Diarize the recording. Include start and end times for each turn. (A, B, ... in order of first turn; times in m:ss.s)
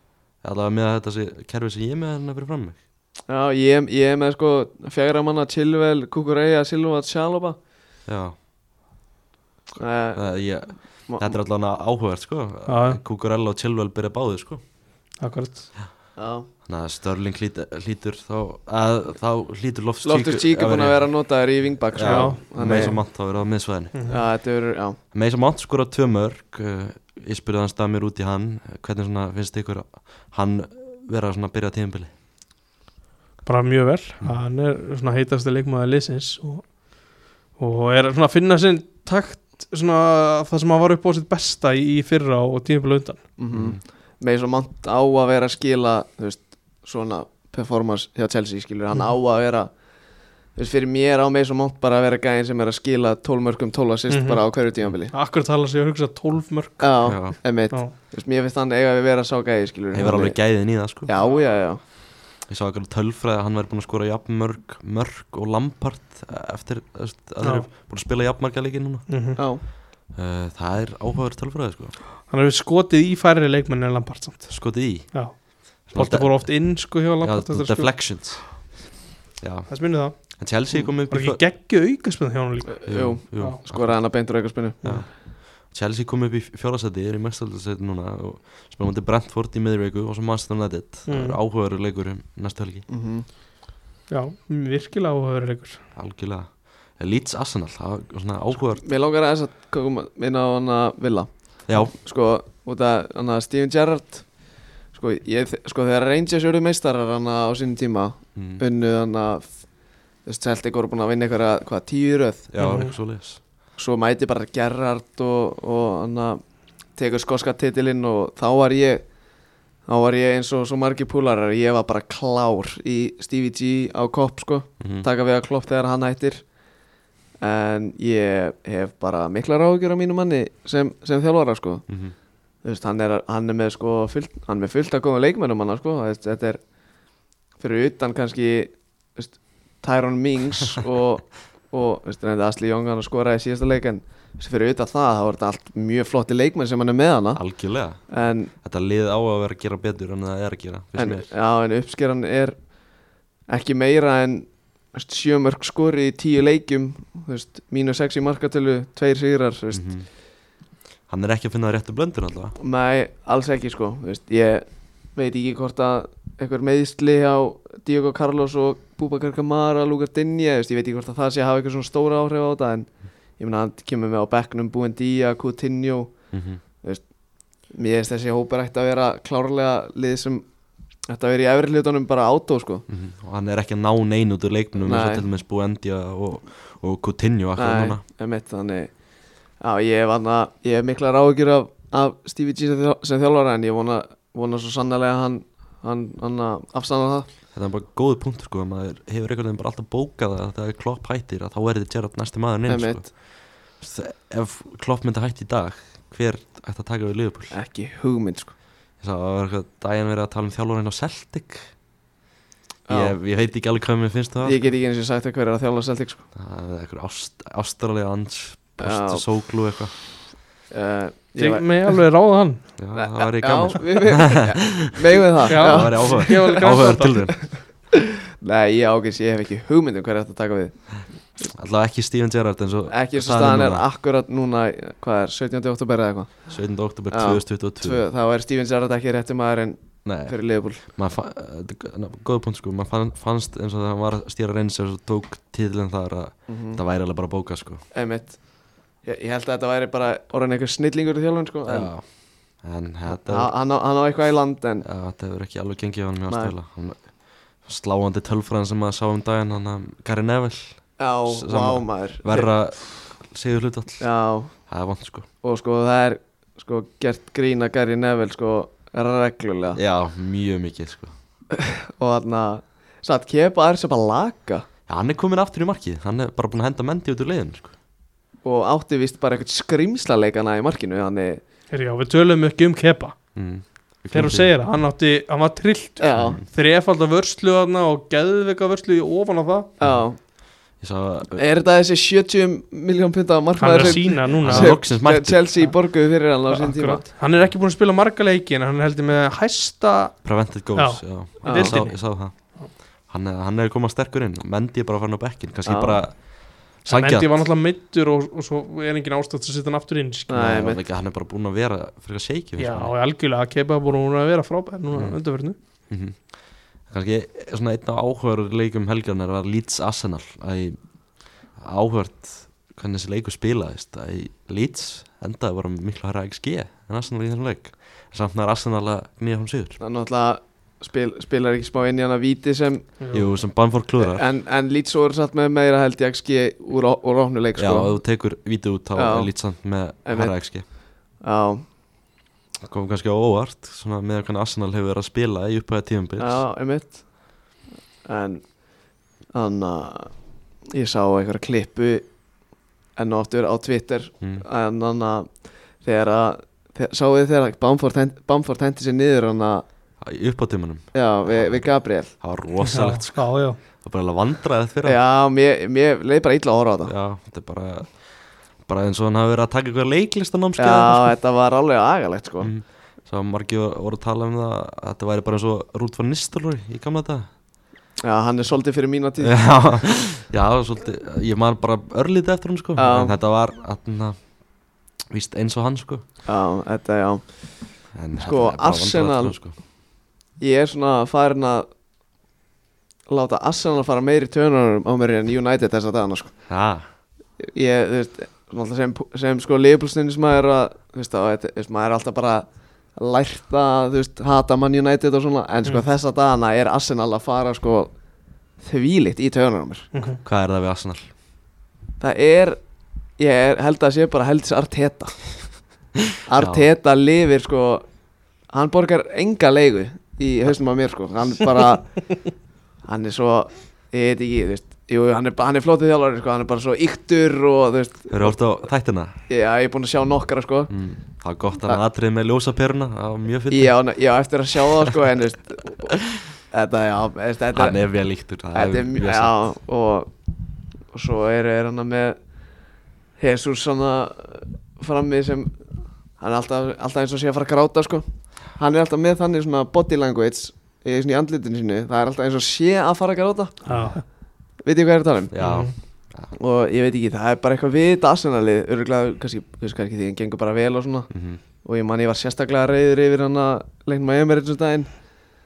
0:00.4-0:02.8 A
0:03.3-0:07.6 B
0:08.0-0:08.4 A
0:09.8-0:10.4 B
0:10.1-0:14.6 A
0:11.1-0:11.3 B
0:12.7-0:13.0 C
0:15.2-0:15.7 C
0:16.2-0:16.5 B
0:16.6-0:21.3 A
0:20.0-0:23.0 B
0:21.9-0:24.0 A
0:22.0-0:23.0 C
0:23.9-0:24.2 C
0:24.0-0:25.0 B
0:25.1-0:32.1 A
0:33.4-0:43.2 C
0:43.4-0:49.7 B
0:43.5-0:43.8 A
0:50.5-0:55.1 B
0:54.1-0:54.5 C
0:55.1-0:57.9 C
0:56.8-1:01.8 B
0:57.0-0:57.4 A
0:59.9-1:01.1 A
1:02.4-1:09.1 A
1:07.4-1:07.7 C
1:09.1-1:09.4 C
1:09.4-1:09.6 B
1:10.1-1:11.9 A
1:12.3-1:18.2 C
1:14.5-1:16.6 A
1:17.2-1:18.6 A
1:19.4-1:21.4 A
1:19.7-1:20.1 C
1:21.1-1:23.6 C
1:22.7-1:24.8 B
1:22.9-1:24.0 A
1:24.8-1:25.1 C
1:24.8-1:32.8 A
1:31.1-1:31.4 C
1:32.9-1:33.2 B
1:34.1-1:35.8 C
1:35.9-1:38.8 A
1:38.8-1:49.7 B
1:41.7-1:41.9 A
1:48.4-1:48.6 A
1:50.2-1:52.5 B
1:52.5-1:53.4 A
1:52.6-1:52.9 C
1:53.8-1:56.4 B
1:56.9-1:59.0 B
1:59.8-2:06.4 B
2:04.8-2:05.1 A
2:07.4-2:11.9 B
2:11.9-2:12.1 A
2:12.6-2:16.6 B
2:17.6-2:27.4 B
2:27.4-2:31.3 A
2:28.1-2:28.5 B
2:30.9-2:32.7 B
2:33.5-2:39.9 B
2:39.7-2:40.1 A
2:41.1-2:42.6 A
2:42.6-2:56.2 B
2:56.3-2:56.6 A
2:56.8-2:57.1 B
2:57.6-3:00.5 B
3:01.1-3:02.8 B
3:02.9-3:08.0 A
3:04.8-3:05.2 B
3:07.6-3:08.9 B
3:09.6-3:17.3 B
3:17.5-3:27.6 A
3:22.7-3:23.0 B
3:27.5-3:28.5 B
3:29.0-3:31.7 A
3:32.9-3:33.2 B
3:32.9-3:34.6 A
3:34.4-3:36.2 B
3:36.3-3:39.9 A
3:38.8-3:39.2 B
3:40.7-3:42.0 B
3:41.4-3:42.7 C
3:42.8-3:47.5 A
3:42.9-3:46.7 B
3:45.5-3:47.4 C
3:47.5-3:50.9 B
3:51.5-3:53.8 A
3:52.9-3:56.5 B
3:56.5-3:58.0 A
3:57.1-4:00.8 B
4:00.0-4:07.8 A
4:06.5-4:06.8 B
4:07.9-4:11.9 B
4:11.6-4:13.5 A
4:13.1-4:14.8 B
4:14.8-4:24.0 A
4:16.3-4:16.5 B
4:21.0-4:22.5 B
4:24.0-4:24.5 B
4:24.7-4:25.3 A
4:25.4-4:29.8 B
4:29.7-4:31.1 A
4:31.5-4:34.7 B
4:34.9-4:37.7 A
4:38.4-4:41.4 B
4:41.7-4:43.2 C
4:43.3-4:44.5 A
4:44.1-4:49.7 C
4:46.0-4:46.4 B
4:46.2-4:46.4 A
4:49.8-4:50.2 B
4:50.7-4:51.4 A
4:51.4-4:57.0 B
4:53.6-4:54.8 C
4:53.8-4:55.5 A
4:56.5-5:00.2 C
5:00.2-5:02.5 A
5:00.7-5:02.7 C
5:01.4-5:01.8 B
5:03.1-5:07.5 A
5:05.6-5:06.0 B
5:06.8-5:10.5 C
5:10.3-5:10.8 B
5:10.3-5:12.9 A
5:12.6-5:15.5 C
5:14.9-5:15.2 A
5:15.9-5:16.3 A
5:16.9-5:20.8 A
5:21.5-5:29.8 A
5:29.8-5:32.9 B
5:33.0-5:33.3 C
5:33.1-5:34.3 A
5:34.0-5:38.0 B
5:37.6-5:40.6 A
5:38.9-5:39.5 B
5:40.0-5:41.6 B
5:42.6-5:46.4 A
5:46.2-5:47.1 B
5:48.0-5:48.5 B
5:49.3-5:50.1 B
5:50.7-5:52.1 B
5:53.0-5:59.6 B
6:00.0-6:05.0 A
6:00.9-6:02.1 B
6:02.6-6:03.6 C
6:04.8-6:06.9 B
6:06.8-6:11.1 A
6:10.6-6:12.5 B
6:12.4-6:17.3 A
6:18.0-6:19.5 B
6:19.2-6:24.5 A
6:22.8-6:23.1 B
6:25.1-6:26.0 A
6:26.2-6:29.3 B
6:27.9-6:29.6 A
6:30.4-6:31.7 B
6:33.1-6:36.4 B
6:36.5-6:36.9 A
6:37.4-6:47.9 B
6:48.6-6:49.9 B
6:49.9-6:50.2 C
6:50.2-6:51.1 A
6:52.0-6:52.6 B
6:53.2-6:55.2 B
6:56.2-6:57.8 B
6:56.4-6:56.7 A
6:58.5-7:02.0 B
7:02.8-7:08.4 B
7:08.1-7:09.1 A
7:09.3-7:10.7 B
7:10.7-7:13.8 A
7:13.5-7:17.8 B
7:17.5-7:19.4 A
7:18.5-7:20.1 B
7:20.9-7:22.2 B
7:23.2-7:25.6 B
7:26.2-7:33.6 B
7:33.6-7:34.0 C
7:34.6-7:35.3 B
7:35.3-7:36.3 A
7:35.4-7:35.7 C
7:36.3-7:41.1 B
7:41.1-7:41.4 A
7:41.6-7:44.9 B